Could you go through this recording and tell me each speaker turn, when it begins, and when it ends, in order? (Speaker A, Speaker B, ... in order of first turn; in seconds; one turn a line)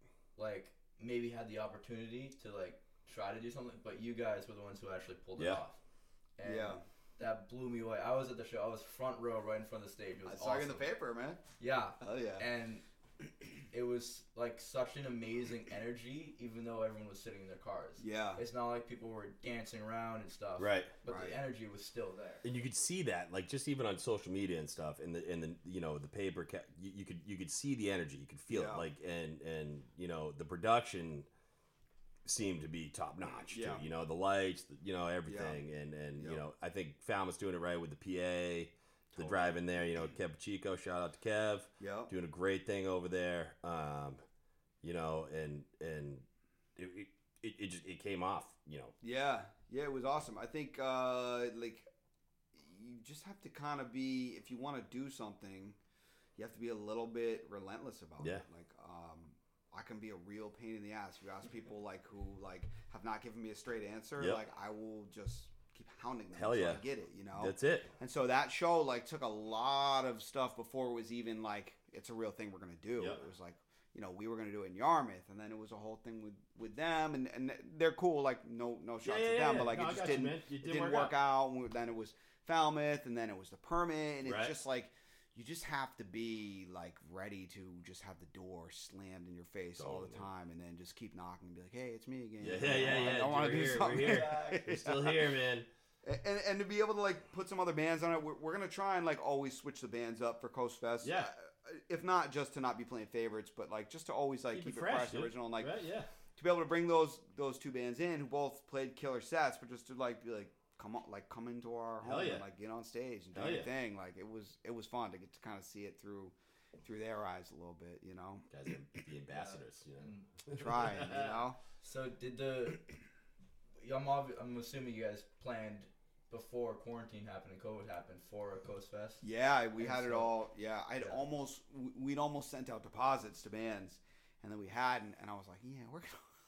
Speaker A: 0.3-5.8
Speaker B: 5.3-5.6
Speaker A: 6.4-10.9
Speaker C: 6.4-6.8
Speaker C: 10.2-11.4
Speaker A: 11.6-12.8
Speaker C: 12.0-12.4
Speaker A: 13.7-22.4
Speaker C: 18.0-18.4
Speaker B: 20.6-20.9
Speaker C: 21.0-21.4
Speaker B: 22.4-31.3
Speaker C: 28.5-28.9
Speaker B: 32.2-44.2
Speaker C: 33.5-33.8
Speaker C: 35.2-35.6
Speaker C: 36.2-36.4
Speaker C: 39.1-39.6
Speaker C: 41.8-42.1
Speaker B: 44.8-48.9
Speaker C: 49.0-51.9
Speaker C: 52.5-55.8
Speaker C: 56.4-95.2
Speaker B: 64.2-64.4
Speaker B: 66.3-66.8
Speaker B: 67.4-67.9
Speaker B: 73.0-73.2
Speaker B: 79.0-81.1
Speaker B: 84.2-84.5
Speaker B: 89.8-90.3
Speaker B: 92.4-95.7
Speaker A: 92.8-93.1
Speaker A: 93.9-94.5
Speaker C: 96.0-105.7
Speaker B: 101.0-101.3
Speaker B: 104.5-106.1
Speaker C: 106.4-118.5
Speaker B: 112.0-112.4
Speaker B: 113.3-113.7
Speaker B: 118.5-121.4
Speaker A: 119.3-120.3
Speaker C: 120.5-121.6
Speaker A: 121.8-122.9
Speaker A: 123.8-130.3
Speaker C: 129.2-136.3